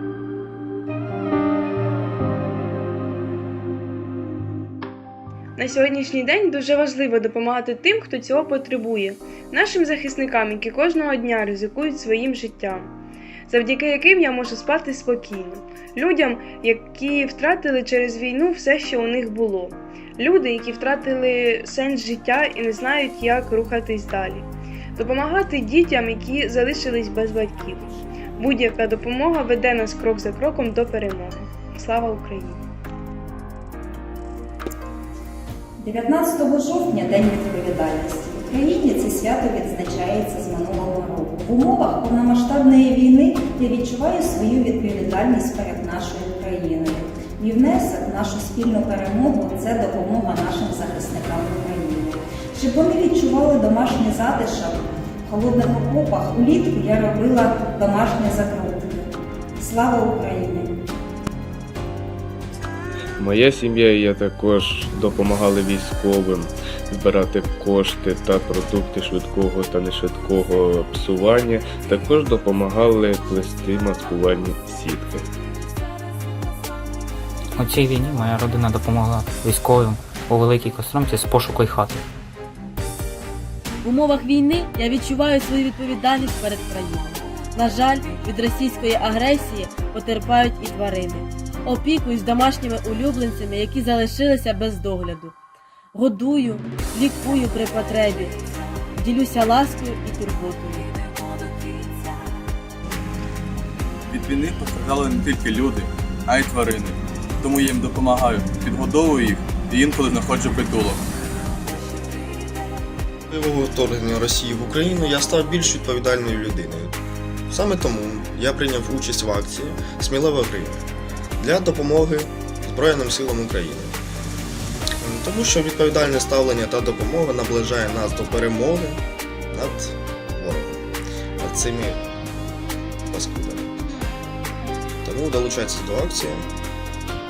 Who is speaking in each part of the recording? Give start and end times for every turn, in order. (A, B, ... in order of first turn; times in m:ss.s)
0:05.6-0:12.9 A
0:13.5-0:32.6 A
0:35.8-1:00.7 B
1:03.2-1:15.3 C
1:17.5-1:22.0 D
1:23.8-1:35.3 E
1:35.9-1:38.4 E
1:39.0-1:40.9 E
1:44.1-1:51.0 F
1:53.3-1:57.0 G
1:57.5-2:00.8 G
2:01.4-2:04.0 G
2:05.0-2:10.8 G
2:11.4-2:12.0 G
2:13.1-2:13.7 G
2:15.0-2:16.5 G